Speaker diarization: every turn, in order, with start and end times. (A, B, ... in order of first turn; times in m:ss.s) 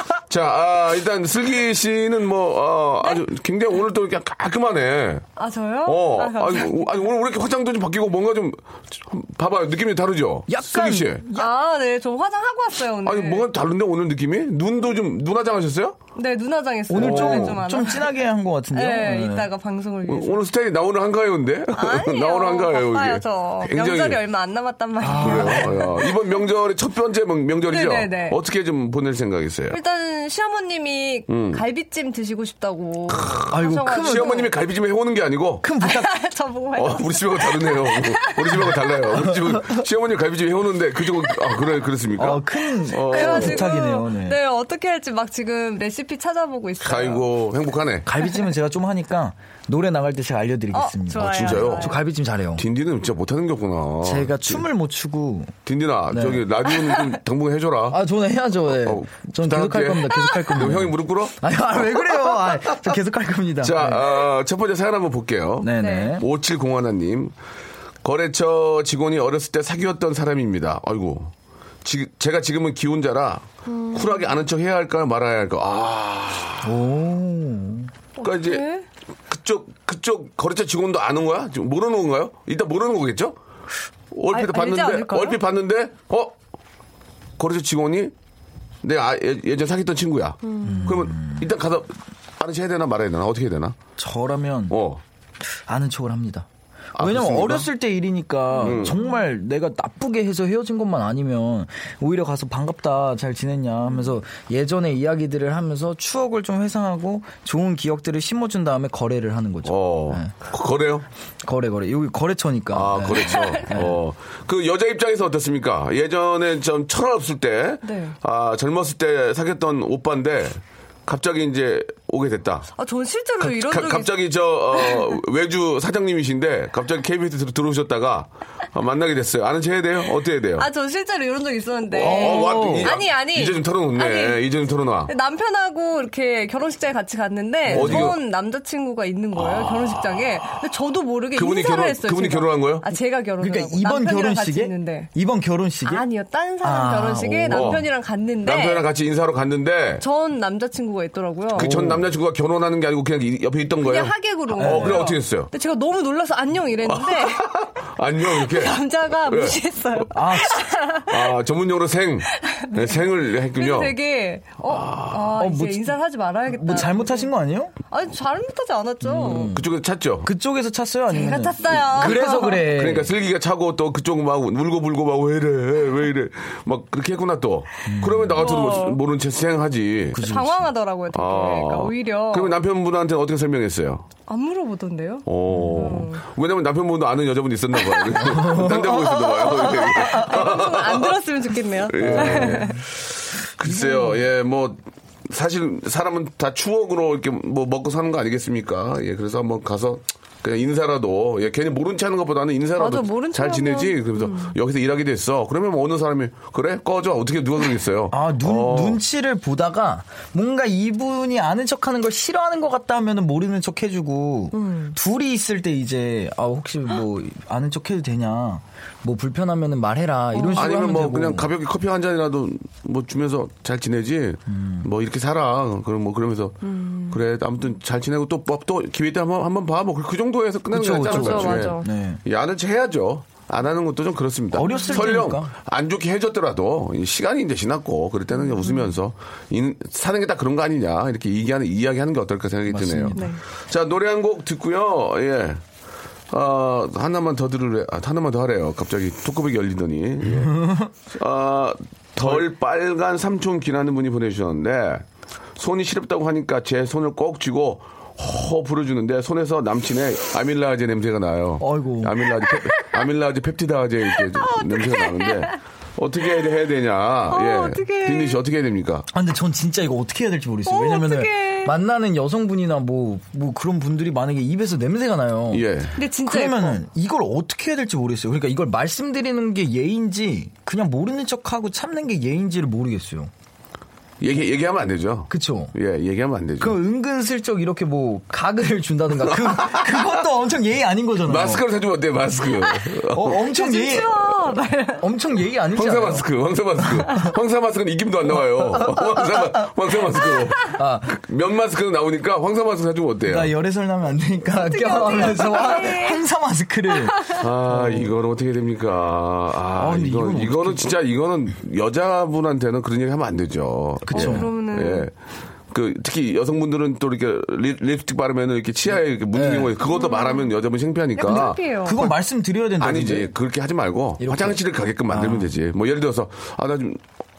0:00.3-0:05.2 A
0:05.4-0:07.0 B
0:05.8-0:11.2 A
0:10.5-0:11.5 C
0:11.3-0:13.5 B
0:13.0-0:16.0 A
0:16.2-0:18.1 B
0:16.9-0:19.5 C
0:16.9-0:17.6 A
0:18.7-0:20.4 B
0:20.1-0:24.2 A
0:21.7-0:26.4 B
0:25.0-0:25.9 C
0:25.0-0:29.8 A
0:27.7-0:28.4 B
0:29.7-0:34.5 B
0:31.3-0:31.6 A
0:33.1-0:35.7 A
0:33.5-0:34.5 C
0:35.6-0:36.1 C
0:35.8-0:38.8 B
0:36.8-0:43.7 A
0:39.3-0:39.8 C
0:42.2-0:44.4 C
0:42.9-0:47.3 B
0:46.8-0:48.1 A
0:48.0-0:52.6 C
0:50.7-0:52.0 B
0:51.2-0:52.0 A
0:52.6-0:54.6 A
0:54.0-0:55.6 C
0:55.7-0:58.0 A
0:56.1-0:56.4 C
0:57.9-1:04.0 C
0:58.7-1:01.3 A
1:03.6-1:07.4 A
1:05.6-1:06.3 C
1:05.8-1:06.2 B
1:08.0-1:11.3 A
1:11.8-1:16.7 A
1:13.7-1:14.3 B
1:16.6-1:17.9 C
1:18.2-1:18.9 B
1:18.2-1:18.6 A
1:19.3-1:23.4 A
1:24.1-1:26.4 A
1:24.3-1:25.4 B
1:27.4-1:28.1 A
1:28.8-1:33.8 A
1:30.5-1:30.9 B
1:30.6-1:31.5 C
1:34.0-1:34.8 C
1:34.7-1:35.0 A
1:35.7-1:50.3 C
1:37.0-1:37.7 A
1:38.6-1:39.0 B
1:38.6-1:39.0 A
1:49.6-1:51.1 A
1:51.4-1:54.0 C
1:52.7-2:02.7 A
1:53.2-1:53.6 B
1:57.8-1:58.2 B
2:02.8-2:04.1 B
2:03.4-2:10.7 A
2:04.7-2:05.1 B
2:10.6-2:14.4 B
2:11.9-2:13.0 C
2:11.9-2:15.1 A
2:15.1-2:25.1 B
2:17.7-2:18.1 C
2:17.7-2:18.2 A
2:19.4-2:20.3 A
2:21.4-2:22.9 A
2:23.4-2:26.1 C
2:25.8-2:28.9 B
2:26.6-2:27.8 C
2:27.5-2:27.8 A
2:28.4-2:30.0 A
2:30.0-2:31.7 B
2:31.5-2:35.5 A
2:31.6-2:32.1 C
2:33.8-2:37.4 B
2:34.6-2:35.1 C
2:36.9-2:40.0 A
2:38.3-2:41.4 B
2:40.1-2:40.7 C
2:41.1-2:44.0 A
2:42.4-2:47.3 B
2:44.6-2:45.3 A
2:45.4-2:47.7 C
2:47.9-2:49.6 B
2:49.0-2:49.7 C
2:49.4-2:50.3 A
2:50.2-2:53.1 C
2:51.1-2:52.7 B
2:52.0-3:00.2 A
2:57.9-2:58.4 C
2:58.4-2:59.0 B
3:00.1-3:00.7 C
3:00.2-3:02.6 B
3:01.1-3:04.1 A
3:04.3-3:06.2 B
3:05.3-3:11.2 A
3:05.5-3:06.0 C
3:07.8-3:12.8 B
3:08.2-3:10.5 C
3:11.9-3:12.8 A
3:12.0-3:12.8 C
3:13.4-3:29.0 A
3:13.6-3:14.2 C
3:22.8-3:24.6 B
3:28.1-3:41.5 C
3:34.5-3:35.0 B
3:40.3-3:40.9 B
3:40.6-3:46.6 A
3:44.5-3:44.9 C
3:46.6-3:47.2 B
3:47.1-4:05.6 A
3:50.7-3:52.2 C
3:50.9-3:51.9 B
3:54.5-3:55.5 C
3:54.7-3:55.0 B
3:58.3-3:58.9 B
4:02.7-4:03.3 C
4:03.2-4:03.4 B
4:06.3-4:15.0 A
4:10.4-4:10.9 C
4:15.6-4:29.1 A
4:21.6-4:22.2 C
4:24.2-4:25.5 B
4:27.3-4:28.4 B
4:29.1-4:35.7 C
4:30.7-4:31.7 B
4:35.5-4:36.0 A
4:36.0-4:36.8 B
4:36.3-4:43.3 C
4:44.2-4:46.8 A
4:45.3-4:45.8 C
4:46.6-4:51.6 C
4:49.3-4:50.0 A
4:51.3-4:53.4 A
4:53.0-4:54.3 C
4:53.4-4:55.1 B
4:55.0-4:56.3 C
4:55.8-5:03.5 A
4:56.8-4:57.3 C
4:58.6-4:59.5 C
5:00.6-5:01.1 C
5:03.2-5:08.1 C
5:04.6-5:06.2 B
5:07.3-5:15.1 A
5:09.8-5:11.0 C
5:14.1-5:14.5 C
5:14.1-5:15.1 B
5:15.7-5:21.6 A
5:19.3-5:19.8 C
5:19.8-5:20.6 B
5:21.2-5:22.1 B
5:21.2-5:23.3 C
5:22.8-5:27.0 A
5:24.2-5:25.5 C